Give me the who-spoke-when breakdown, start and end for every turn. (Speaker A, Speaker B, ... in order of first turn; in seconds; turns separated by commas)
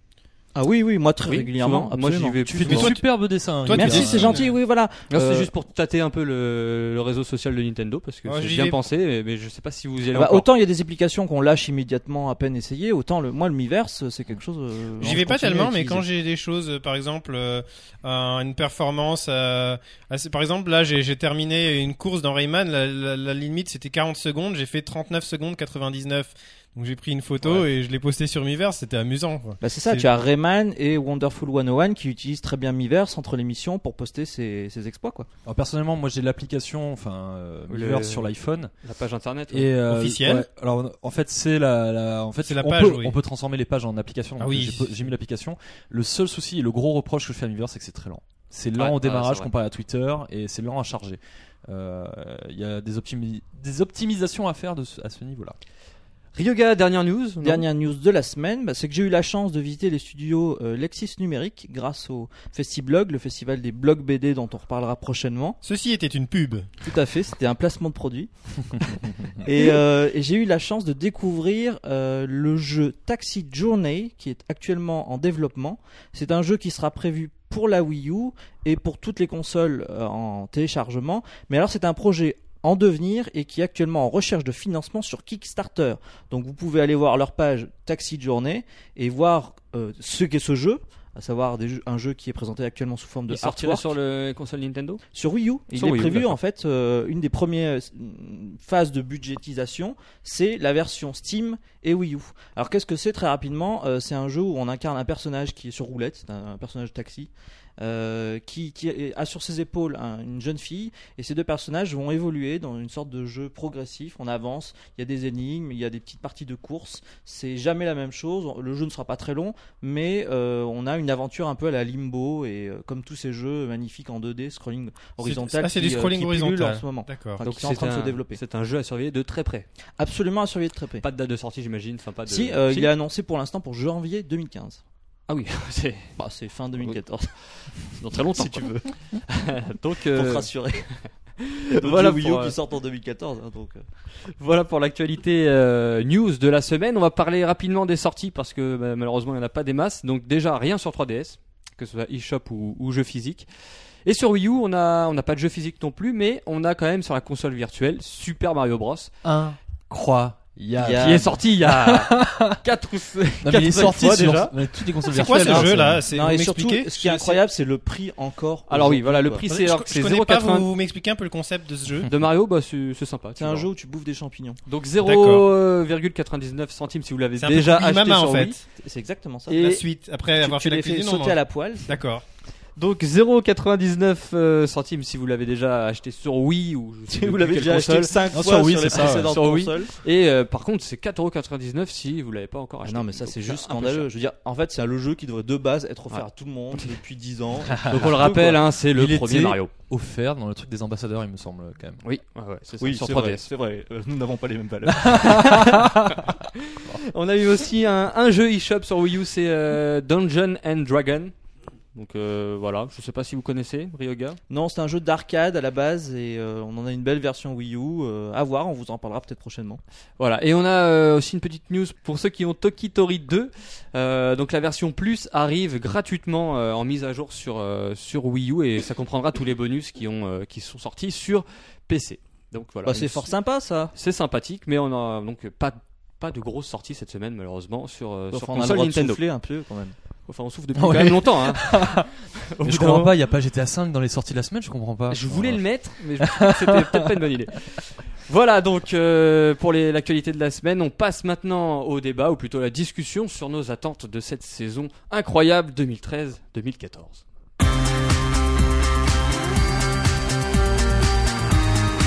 Speaker A: 0.5-2.8, Speaker B: 1.2-2.9, Speaker C: 2.4-4.4, Speaker D: 2.7-3.0, Speaker D: 3.6-4.5, Speaker A: 3.7-5.5, Speaker B: 5.1-10.5, Speaker D: 8.3-8.8, Speaker A: 10.1-16.0, Speaker D: 15.0-30.1, Speaker A: 29.6-35.3, Speaker C: 35.4-38.7, Speaker B: 37.7-38.3, Speaker B: 38.8-39.7, Speaker C: 39.5-55.6, Speaker D: 39.9-40.5, Speaker D: 42.4-43.1, Speaker D: 44.4-45.0, Speaker B: 48.8-49.5, Speaker B: 56.3-57.6, Speaker A: 57.4-65.6, Speaker D: 65.6-66.7, Speaker A: 66.8-93.9, Speaker B: 93.3-95.0, Speaker A: 95.1-128.4, Speaker B: 95.7-96.4, Speaker D: 125.2-127.4, Speaker B: 127.4-129.7, Speaker A: 130.0-131.0, Speaker B: 131.0-132.9, Speaker A: 132.3-134.8, Speaker B: 135.3-136.2, Speaker A: 136.2-137.3, Speaker B: 137.8-140.5, Speaker A: 137.9-138.8, Speaker A: 140.1-140.9, Speaker B: 141.0-142.6, Speaker A: 141.8-143.8, Speaker B: 144.3-153.5, Speaker B: 154.0-159.1, Speaker C: 159.2-162.6, Speaker A: 160.8-161.3, Speaker B: 161.0-164.6, Speaker C: 163.4-166.0, Speaker D: 165.1-167.4, Speaker A: 165.4-169.4, Speaker B: 168.7-170.7, Speaker D: 169.5-172.1, Speaker B: 172.1-173.7, Speaker A: 173.4-174.6, Speaker B: 174.7-178.6, Speaker D: 175.0-175.5, Speaker D: 177.4-178.6, Speaker A: 178.7-179.8, Speaker D: 179.5-182.2, Speaker A: 180.4-181.9, Speaker B: 182.8-188.2, Speaker A: 187.1-189.9, Speaker C: 188.3-189.3, Speaker B: 188.9-194.1, Speaker A: 192.8-198.6, Speaker C: 197.7-202.0, Speaker B: 197.8-199.7, Speaker B: 202.0-203.5, Speaker A: 202.8-205.8, Speaker C: 205.1-206.2, Speaker B: 205.3-211.3, Speaker B: 211.9-214.4, Speaker A: 214.5-219.8, Speaker B: 220.2-233.3, Speaker A: 232.8-233.9, Speaker B: 233.9-239.2, Speaker A: 238.3-239.9, Speaker B: 240.3-243.1, Speaker C: 240.7-242.1, Speaker C: 242.6-245.6, Speaker B: 245.1-257.2, Speaker C: 246.2-247.1